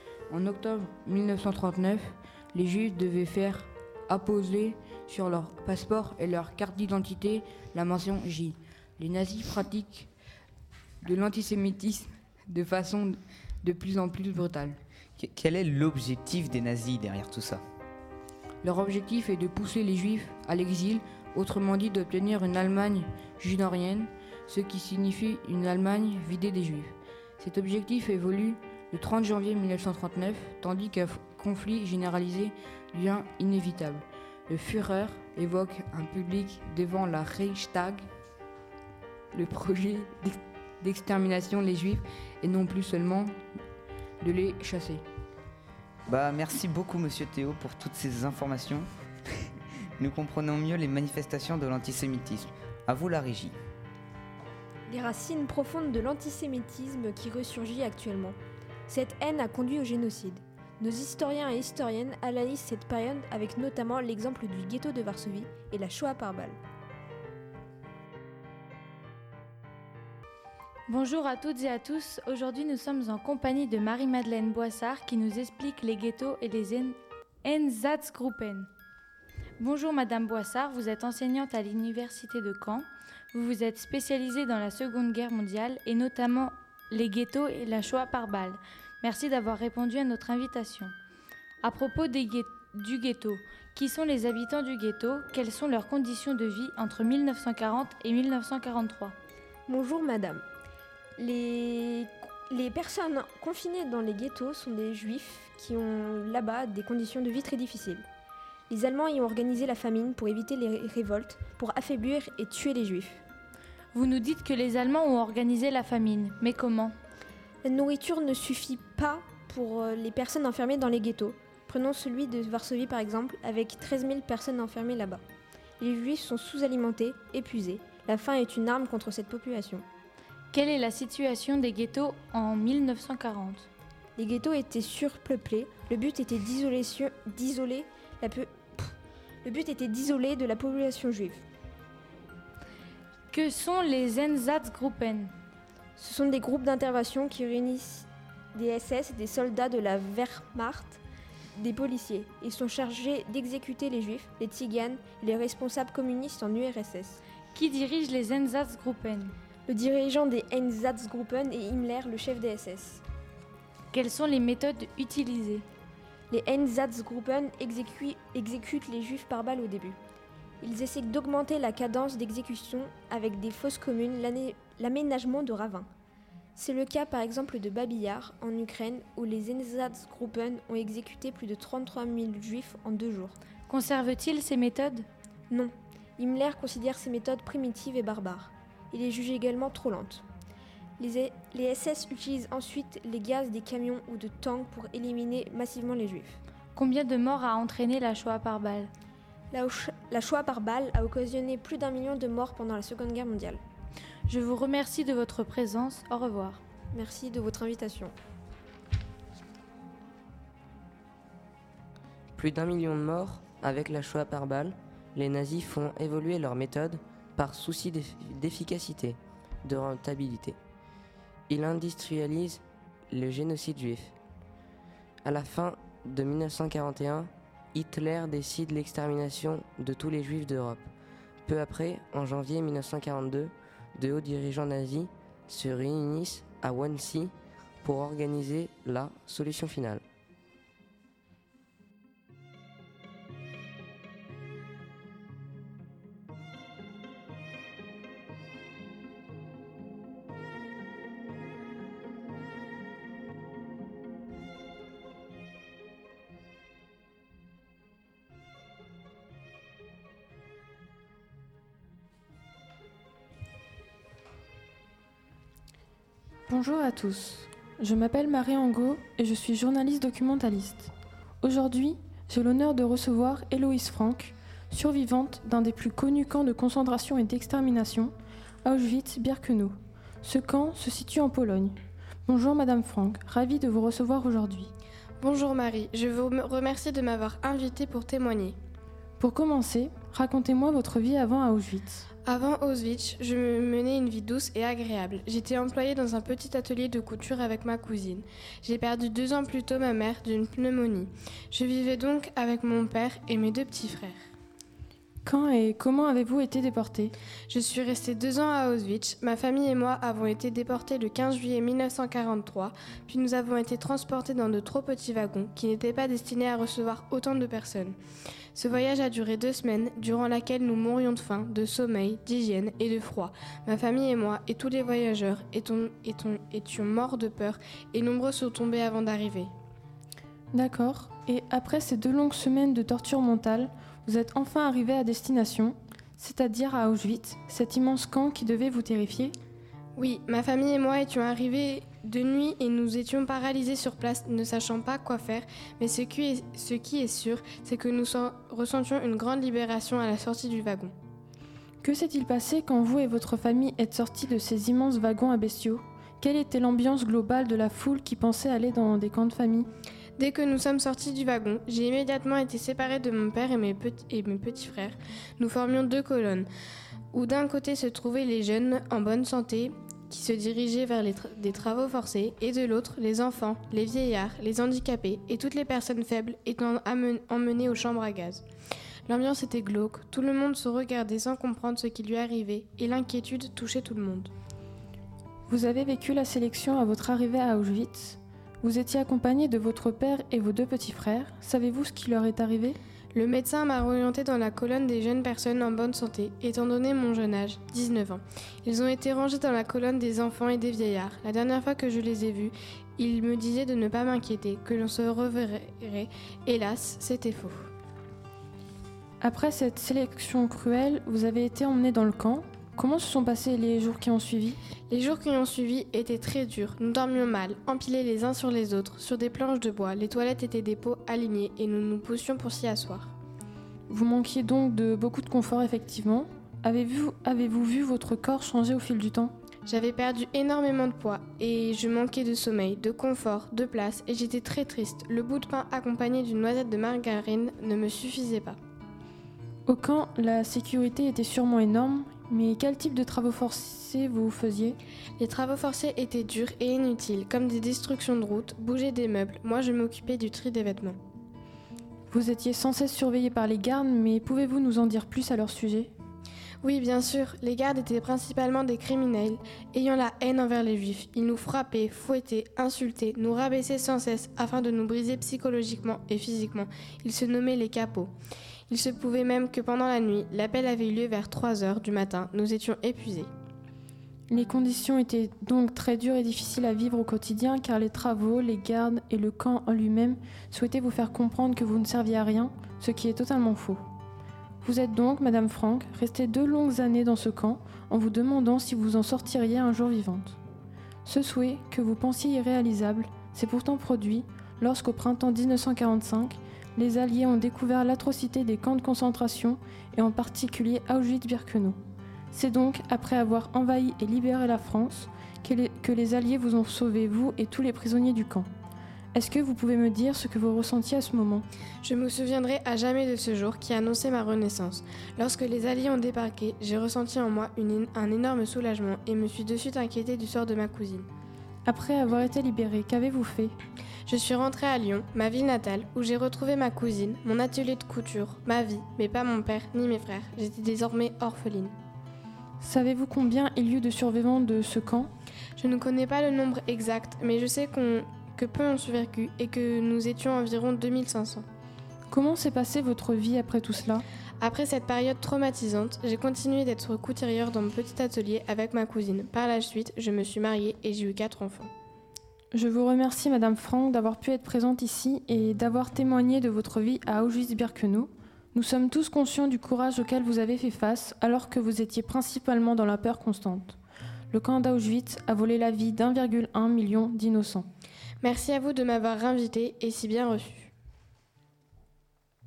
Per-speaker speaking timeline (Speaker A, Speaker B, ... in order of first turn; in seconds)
Speaker A: 0.3-10.1, 11.0-14.8, 18.6-38.0, 39.3-43.4, 44.2-45.0
Speaker B: 15.2-17.6, 46.1-48.9, 50.0-53.6
Speaker C: 54.9-58.4, 58.9-66.6, 99.7-100.4, 101.2-108.0, 108.7-113.2, 117.6-125.2, 125.8-129.8, 134.2-141.4, 146.0-151.0, 151.5-157.2, 159.7-163.0, 166.3-170.0, 170.6-175.9, 176.6-183.4, 185.5-190.2, 191.0-196.4, 199.5-203.6, 206.9-208.1
Speaker D: 70.9-78.7, 79.6-90.9, 91.6-99.1, 113.9-116.9, 130.5-133.7, 143.3-145.3, 157.5-159.3, 163.9-165.6, 183.7-185.1, 196.7-198.9, 204.3-206.6
Speaker E: 212.3-220.6, 221.5-224.1, 225.2-230.9, 231.4-240.0
Speaker F: 266.5-270.9, 271.4-278.1, 278.6-284.7, 289.2-292.1, 305.2-307.1, 330.5-339.3, 351.8-359.7, 385.5-392.8, 409.2-414.6, 423.9-429.3, 439.7-444.8, 452.1-455.9, 474.3-483.8, 484.6-490.4, 491.0-501.8, 502.3-508.5, 509.1-511.4, 521.6-523.5, 532.6-535.1, 542.1-544.0, 552.5-563.8, 564.3-567.7
Speaker G: 285.2-288.6, 292.2-304.2, 307.5-318.0, 318.5-329.5, 339.9-350.9, 360.2-366.5, 367.1-378.4, 379.1-384.3, 393.1-407.7, 414.9-423.1, 429.6-438.6, 445.2-451.0, 456.6-468.1, 468.7-473.3, 511.8-521.1, 524.0-531.7, 535.6-541.5, 544.4-551.7, 568.2-570.7